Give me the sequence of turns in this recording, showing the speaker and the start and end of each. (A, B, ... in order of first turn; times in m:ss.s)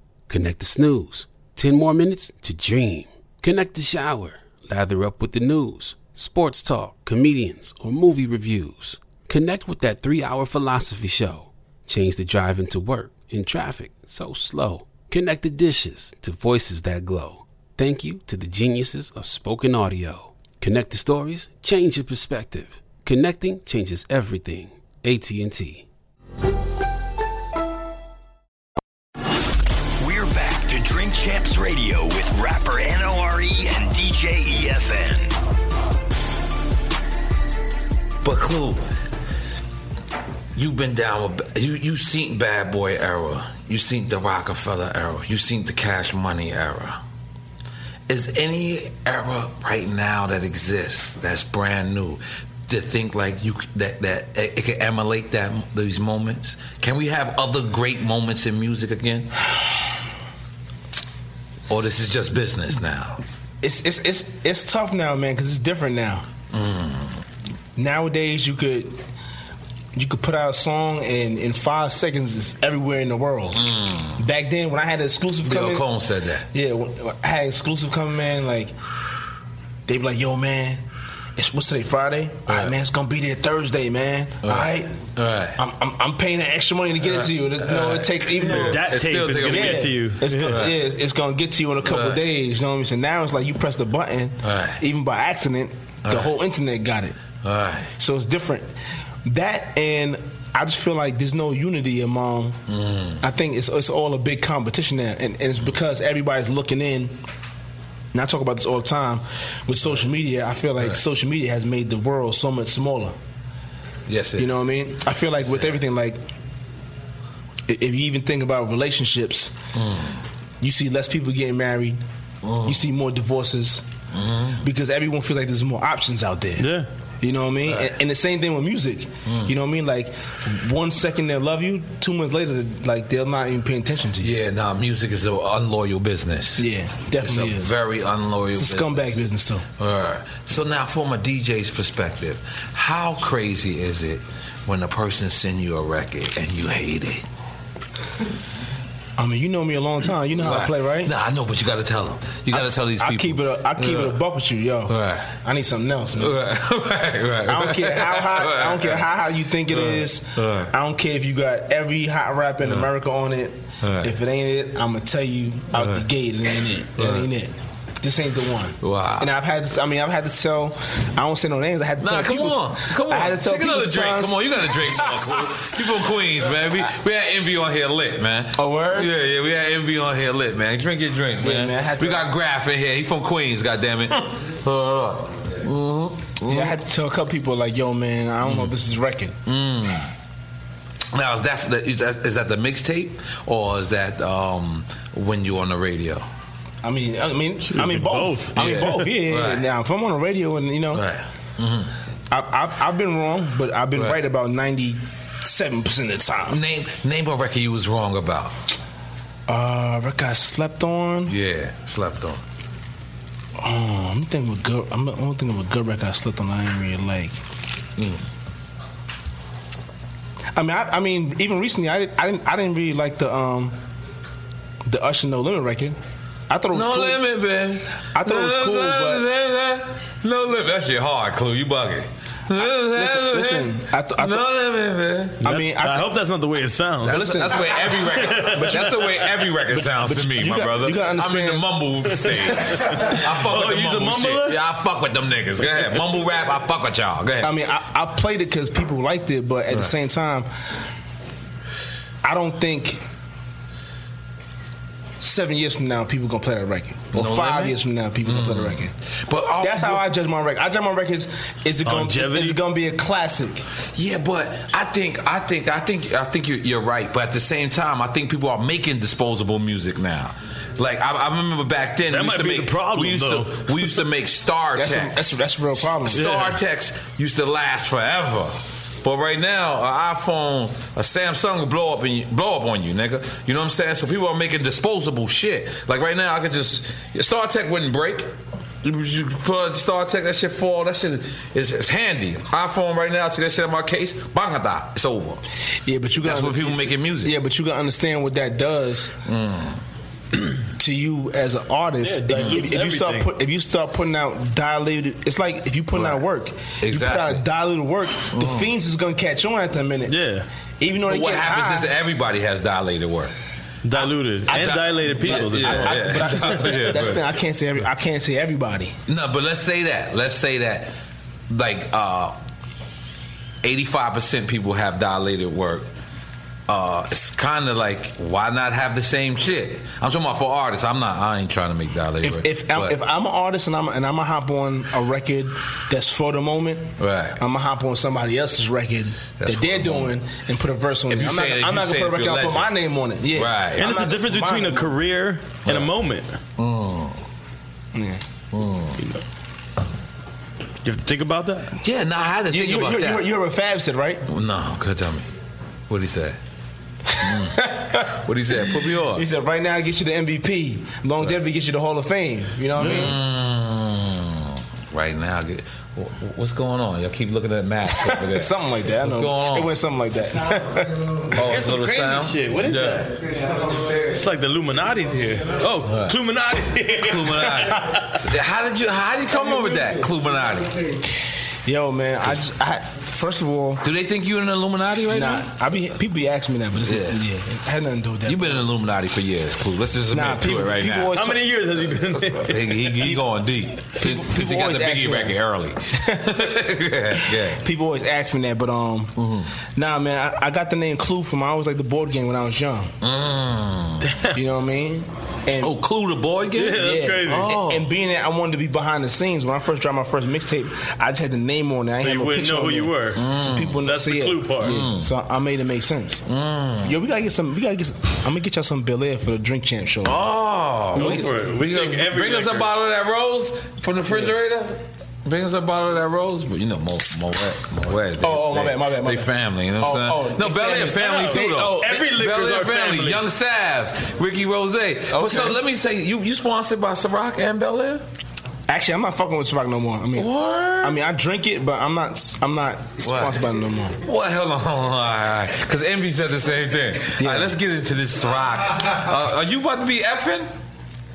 0:00.3-0:25.9 A
0:30.0-0:35.3 B
0:38.2-0:38.8 C
0:40.6-0:47.0 C
0:48.1-0:59.3 C
1:01.7-1:03.2 C
1:03.6-1:06.3 D
1:06.5-1:07.2 C
1:07.8-1:09.0 D
1:10.0-1:13.6 D
1:13.5-1:14.2 C
1:14.2-1:15.9 D
1:15.4-1:16.5 C
1:16.5-1:18.7 D
1:19.9-1:20.8 D
1:21.4-1:24.9 D
1:22.5-1:22.7 C
1:24.4-1:25.6 C
1:25.6-1:28.9 D
1:27.0-1:30.8 C
1:28.4-1:30.6 E
1:29.4-1:37.2 D
1:31.8-1:32.2 C
1:34.4-1:34.8 C
1:37.4-1:37.9 C
1:38.0-1:38.7 D
1:39.2-1:42.6 D
1:42.7-1:43.2 C
1:43.2-1:47.2 D
1:48.1-1:53.2 D
1:54.1-1:54.6 C
1:54.4-1:56.2 D
1:55.5-1:55.8 C
1:57.7-1:59.6 D
1:59.8-2:00.2 C
2:00.6-2:02.0 D
2:02.4-2:02.8 C
2:02.6-2:03.8 D
2:04.1-2:04.6 C
2:04.6-2:06.7 D
2:06.6-2:06.9 E
2:07.2-2:14.4 D
2:09.3-2:09.5 C
2:14.2-2:16.7 C
2:16.6-2:17.8 D
2:17.2-2:19.2 C
2:18.6-2:19.6 D
2:19.8-2:27.2 C
2:29.2-2:31.1 D
2:30.4-2:34.2 C
2:32.5-2:36.4 D
2:34.9-2:35.3 C
2:36.2-2:39.0 C
2:37.5-2:55.5 D
2:39.7-2:40.7 C
2:43.8-2:44.1 C
2:45.8-2:46.0 C
2:47.0-2:47.3 C
2:48.8-2:49.3 C
2:52.0-3:06.8 C
2:58.6-2:59.1 D
3:01.4-3:02.3 D
3:06.5-3:09.4 D
3:08.4-3:08.7 C
3:09.5-3:10.1 C
3:11.1-3:16.3 C
3:16.8-3:21.0 D
3:17.7-3:18.6 E
3:18.6-3:19.7 C
3:20.9-3:21.9 C
3:22.3-3:26.6 D
3:26.5-3:28.6 C
3:29.5-3:31.3 D
3:31.3-3:32.4 C
3:33.6-3:37.4 D
3:40.6-3:43.8 D
3:44.8-3:46.0 D
3:46.5-3:47.2 D
3:46.7-3:55.4 C
3:48.1-3:49.2 D
3:52.6-3:54.4 D
3:55.4-3:59.0 E
3:55.4-3:56.1 D
3:57.0-4:07.5 C
3:57.0-3:57.7 D
3:59.8-4:01.6 D
4:02.2-4:04.6 E
4:07.4-4:10.5 D
4:12.2-4:13.0 D
4:15.2-4:18.9 D
4:17.1-4:20.0 C
4:19.6-4:23.6 D
4:21.8-4:22.6 E
4:24.0-4:48.3 C
4:32.1-4:34.0 E
4:34.8-4:36.3 D
4:36.1-4:36.6 E
4:48.8-4:55.4 C
4:55.9-4:59.2 D
4:56.2-4:57.3 C
4:59.2-4:59.8 C
5:00.8-5:10.2 D
5:02.0-5:03.3 E
5:06.8-5:07.4 C
5:08.3-5:08.7 C
5:10.1-5:10.5 E
5:10.8-5:11.9 D
5:11.1-5:13.3 C
5:13.8-5:16.7 E
5:14.5-5:17.2 C
5:14.5-5:19.0 D
5:19.1-5:20.9 C
5:21.5-5:22.4 C
5:23.6-5:25.9 C
5:26.7-5:33.0 C
5:32.2-5:44.9 D
5:37.0-5:37.4 C
5:39.4-5:40.1 C
5:41.1-5:42.7 C
5:43.3-5:43.9 C
5:43.8-5:46.4 E
5:45.7-5:45.9 C
5:46.6-5:47.2 C
5:47.9-5:48.2 D
5:48.5-5:49.0 C
5:50.8-5:51.8 E
5:51.8-5:53.3 C
5:52.5-5:54.2 D
5:54.3-5:55.3 C
5:55.9-5:56.4 C
5:57.1-6:03.2 D
5:57.2-5:59.2 C
6:02.8-6:09.7 C
6:02.8-6:03.1 E
6:08.0-6:11.2 D
6:11.3-6:13.1 C
6:11.4-6:13.2 E
6:14.1-6:18.1 E
6:15.8-6:16.2 C
6:17.0-6:20.8 C
6:21.6-6:23.8 D
6:23.8-6:25.5 C
6:25.1-6:28.6 D
6:26.9-6:27.2 C
6:28.3-6:31.2 C
6:30.1-6:31.4 D
6:31.1-6:32.8 E
6:32.4-6:37.6 C
6:34.0-6:35.4 D
6:37.2-6:39.1 D
6:39.2-6:39.5 C
6:39.8-6:42.9 D
6:43.0-6:44.0 C
6:44.0-6:44.4 E
6:44.3-6:45.8 D
6:45.6-6:47.9 C
6:46.6-6:47.5 E
6:46.8-6:56.2 D
6:52.0-6:53.2 E
6:53.2-6:53.8 C
6:53.8-6:54.8 E
6:54.6-6:55.1 C
6:56.3-6:57.0 C
6:56.8-7:00.2 D
7:00.0-7:18.0 C
7:00.9-7:02.7 E
7:01.0-7:01.2 D
7:08.2-7:12.0 D
7:10.9-7:13.2 E
7:15.1-7:15.6 D
7:18.7-7:20.3 D
7:20.2-7:21.0 C
7:20.8-7:24.0 D
7:23.0-7:23.4 C
7:24.0-7:30.5 C
7:27.2-7:27.5 D